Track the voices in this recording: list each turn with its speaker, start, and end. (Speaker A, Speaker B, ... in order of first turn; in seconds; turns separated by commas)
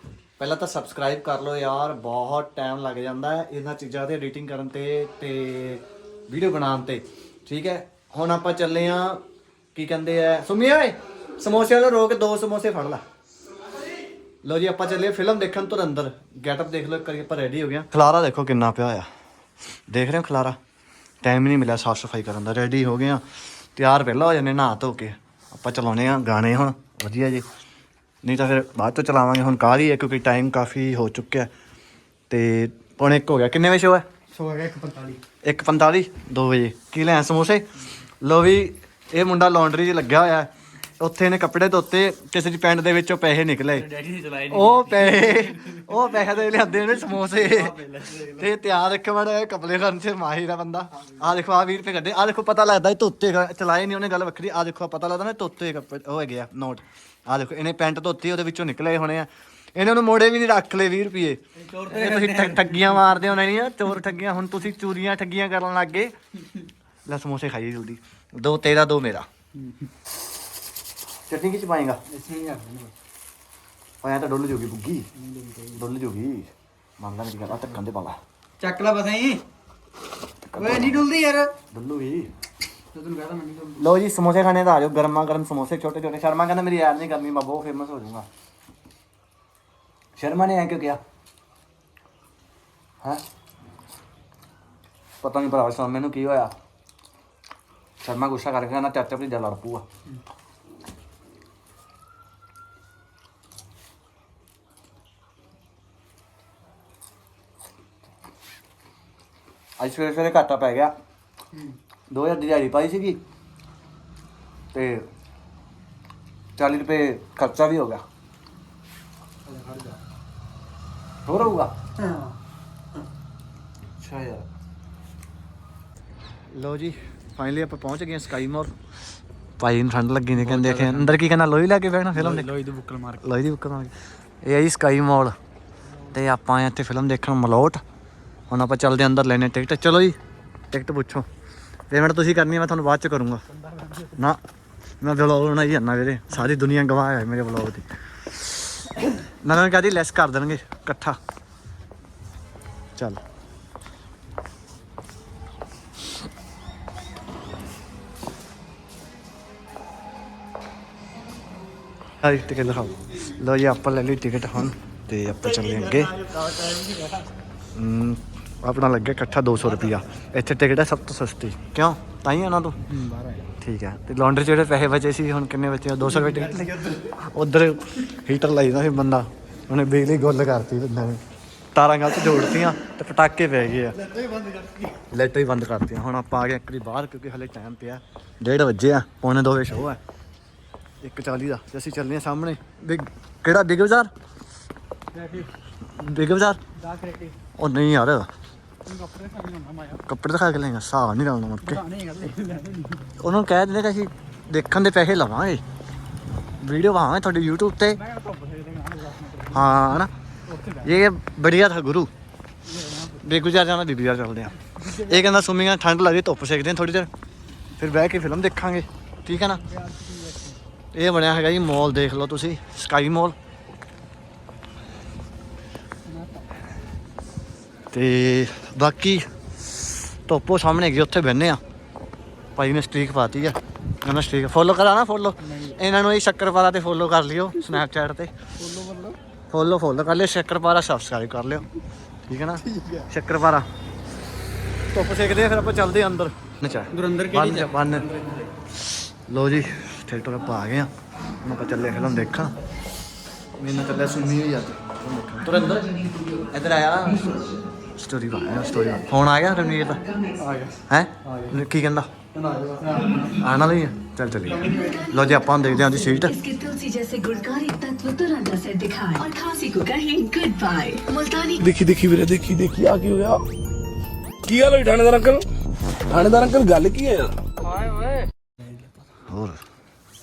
Speaker A: 0.4-9.2, Speaker A: 9.7-13.0, Speaker A: 14.4-19.1, Speaker A: 19.9-20.6, Speaker A: 21.2-23.2, Speaker A: 23.8-27.5, Speaker A: 28.2-31.5, Speaker A: 32.3-34.1, Speaker B: 34.3-35.2, Speaker A: 35.4-66.2, Speaker B: 43.9-45.8, Speaker B: 47.4-48.4, Speaker B: 61.7-62.9, Speaker A: 67.0-69.3, Speaker B: 69.6-69.9, Speaker A: 71.3-72.0, Speaker B: 72.1-72.9, Speaker A: 74.0-75.1, Speaker B: 75.2-75.8, Speaker A: 75.7-78.2, Speaker B: 78.6-79.4, Speaker A: 80.5-81.1, Speaker B: 80.6-81.5, Speaker A: 81.7-82.3, Speaker B: 82.9-83.8, Speaker A: 83.7-88.3, Speaker A: 90.2-91.0, Speaker A: 95.2-96.5, Speaker A: 98.0-99.9, Speaker A: 109.8-111.0, Speaker A: 112.1-113.2, Speaker A: 114.7-115.1, Speaker A: 116.6-118.0, Speaker B: 119.5-120.0, Speaker A: 121.2-121.8, Speaker B: 122.0-122.3, Speaker A: 124.0-124.5, Speaker A: 126.5-128.7, Speaker A: 129.6-132.6, Speaker B: 130.4-131.2, Speaker B: 132.2-133.2, Speaker A: 133.2-135.4, Speaker A: 136.1-137.8, Speaker A: 138.5-140.2, Speaker A: 140.7-141.3, Speaker A: 141.9-143.4, Speaker A: 144.1-144.4, Speaker A: 145.0-151.2, Speaker A: 162.2-166.3, Speaker B: 166.1-167.3, Speaker A: 167.7-172.8, Speaker B: 172.9-173.5, Speaker A: 173.6-181.2, Speaker A: 181.7-184.1, Speaker B: 184.1-184.8, Speaker A: 185.1-190.0, Speaker A: 191.0-194.1, Speaker B: 195.1-195.5, Speaker A: 195.9-196.6, Speaker B: 196.8-197.4, Speaker A: 197.6-198.3, Speaker B: 198.9-200.0, Speaker A: 200.1-201.8, Speaker B: 201.7-203.1, Speaker A: 203.2-205.6, Speaker A: 206.6-208.0, Speaker B: 208.0-209.6, Speaker A: 209.5-210.1, Speaker B: 210.5-210.9, Speaker A: 210.8-212.1, Speaker B: 212.7-213.2, Speaker A: 213.2-217.1, Speaker B: 214.7-215.3, Speaker A: 217.8-219.6, Speaker B: 219.7-220.6, Speaker A: 220.9-223.4, Speaker B: 226.1-226.5, Speaker A: 227.9-231.6, Speaker A: 232.6-238.3, Speaker B: 235.5-235.7, Speaker B: 238.6-239.2, Speaker A: 239.5-241.7, Speaker A: 242.3-243.7, Speaker A: 244.9-248.1, Speaker B: 246.9-247.7, Speaker A: 248.8-250.9, Speaker A: 251.4-252.6, Speaker A: 253.6-260.1, Speaker B: 260.4-261.5, Speaker A: 260.9-262.1, Speaker B: 262.3-263.3, Speaker A: 263.2-266.4, Speaker B: 264.6-264.9, Speaker C: 264.8-271.7, Speaker D: 271.8-273.4, Speaker D: 274.5-275.4, Speaker D: 276.1-277.3, Speaker A: 279.2-279.6